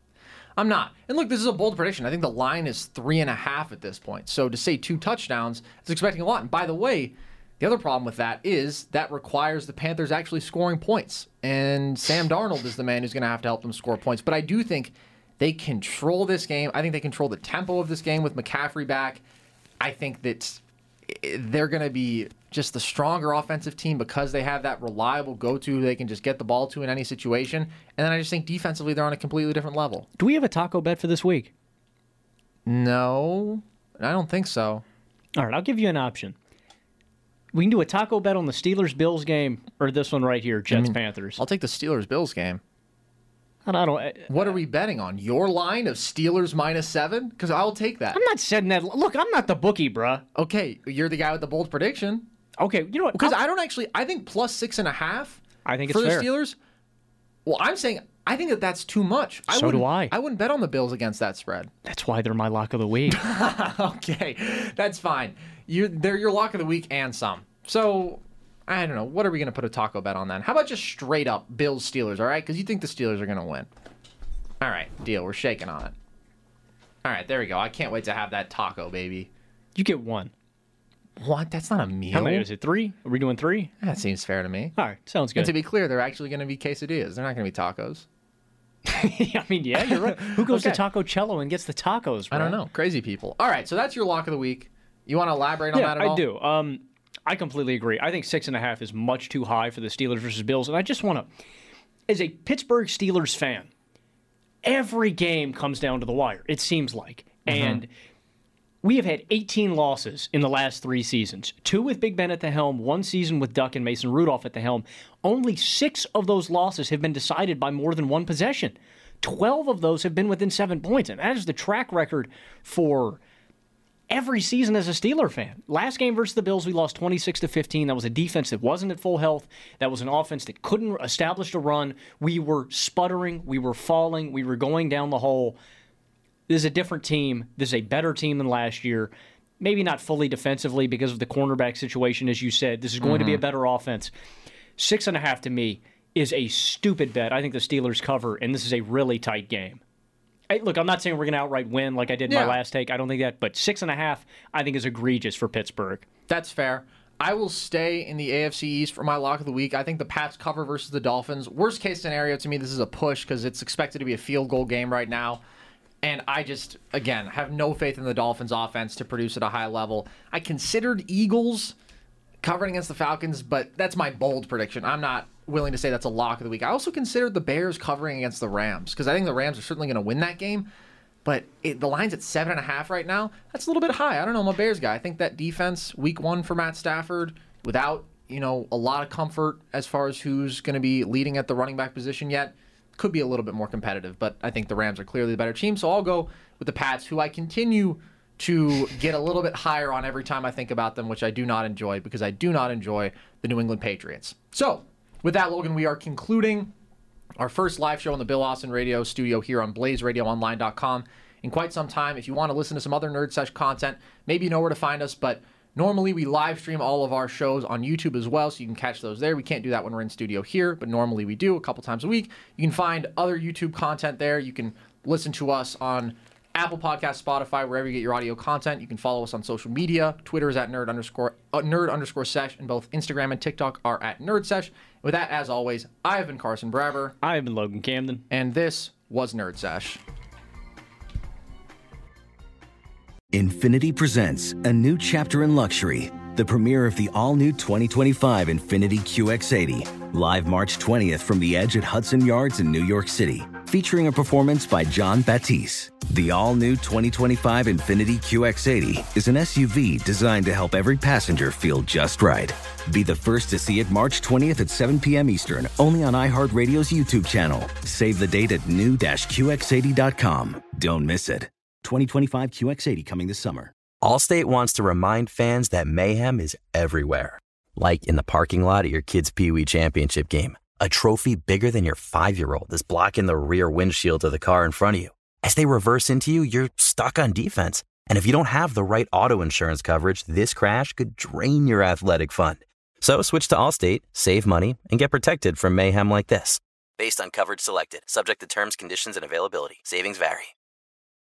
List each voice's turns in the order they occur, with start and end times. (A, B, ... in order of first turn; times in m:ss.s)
0:00.6-0:19.2 A
0:19.8-0:30.1 A
0:30.2-0:31.5 B
0:32.7-0:34.8 A
0:35.4-0:36.4 B
0:37.5-0:41.4 B
0:40.7-0:42.6 A
0:43.7-0:44.6 B
0:44.3-0:48.2 A
0:48.1-0:50.2 B
0:50.4-0:52.3 A
0:52.6-0:53.4 B
0:53.2-0:56.6 A
0:55.7-0:56.3 B
0:57.5-1:01.7 A
0:59.5-1:00.1 B
1:01.8-1:03.2 B
1:03.1-1:13.7 A
1:14.6-1:15.9 A
1:17.0-1:19.3 A
1:19.8-1:20.3 B
1:21.2-1:22.5 A
1:22.1-1:23.7 B
1:23.8-1:24.8 A
1:24.8-1:25.5 B
1:25.4-1:28.1 A
1:28.9-1:32.6 B
1:29.8-1:30.8 A
1:32.3-1:36.2 A
1:35.8-1:41.3 B
1:42.1-1:43.7 B
1:44.6-1:47.9 B
1:47.5-1:47.8 A
1:48.8-2:03.2 B
2:04.1-2:15.6 B
2:16.5-2:24.1 B
2:23.0-2:23.4 A
2:24.8-2:29.8 B
2:30.5-2:36.1 B
2:32.3-2:32.6 A
2:36.3-2:45.4 A
2:46.0-2:51.8 A
2:52.4-3:00.7 A
3:01.2-3:26.7 A
3:27.4-3:57.2 A
3:57.2-3:58.2 B
3:58.3-4:00.0 A
4:03.3-4:33.7 C
4:34.0-5:00.5 D